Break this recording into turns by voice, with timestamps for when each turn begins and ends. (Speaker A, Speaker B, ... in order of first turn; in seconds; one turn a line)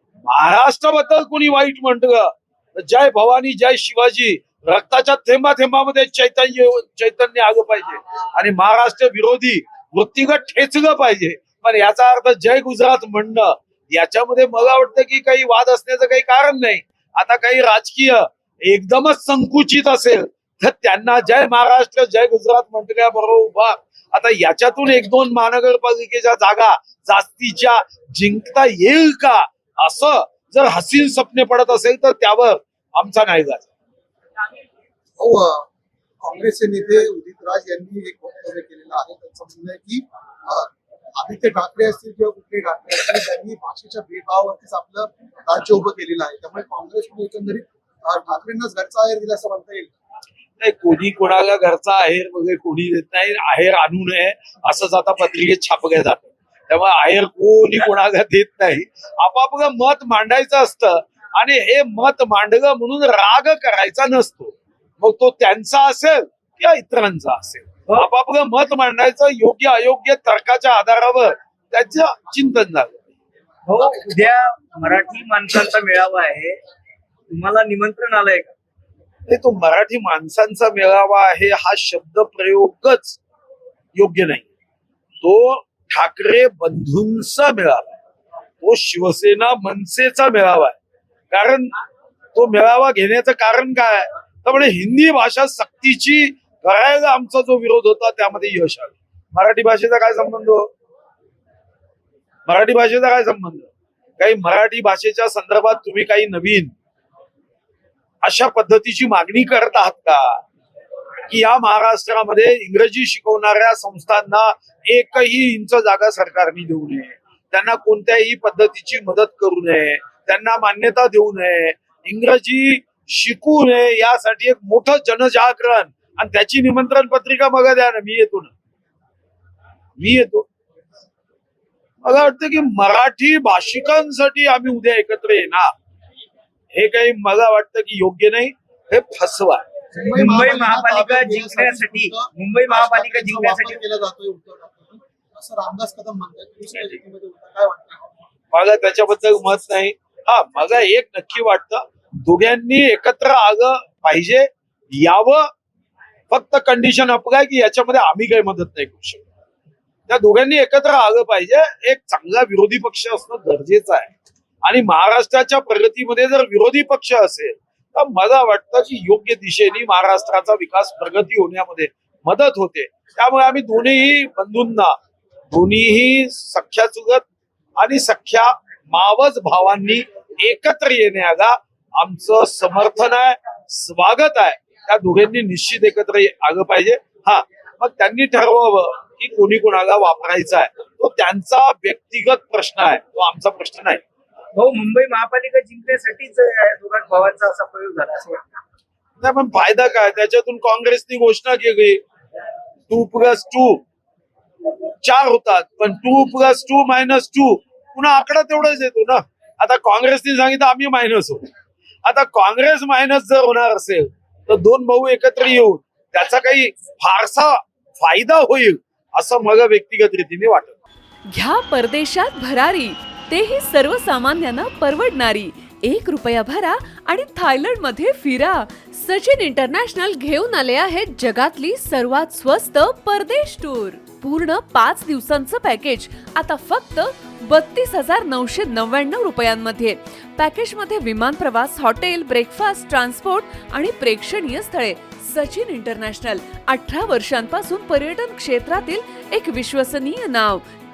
Speaker A: 0.2-33.7
Speaker B: 35.2-35.7
Speaker B: 36.2-49.9
Speaker A: 50.6-73.0
Speaker C: 73.7-76.6
Speaker C: 77.3-78.5
Speaker A: 79.3-83.2
Speaker A: 84.0-84.5
Speaker A: 85.2-87.9
Speaker A: 88.6-90.8
Speaker A: 91.3-91.7
Speaker A: 92.3-100.7
Speaker A: 102.5-106.7
Speaker A: 108.2-110.4
Speaker A: 111.3-128.5
Speaker A: 130.0-130.5
Speaker A: 132.0-135.7
Speaker A: 136.7-139.7
Speaker B: 139.9-148.1
Speaker C: 140.0-143.8
Speaker A: 148.5-155.5
Speaker A: 156.3-159.2
Speaker A: 160.1-164.1
Speaker A: 164.6-175.0
Speaker A: 175.5-177.3
Speaker A: 177.8-194.0
Speaker C: 194.6-198.5
Speaker A: 199.2-202.0
Speaker A: 202.9-203.8
Speaker A: 205.0-211.4
Speaker A: 212.1-220.8
Speaker D: 221.3-250.6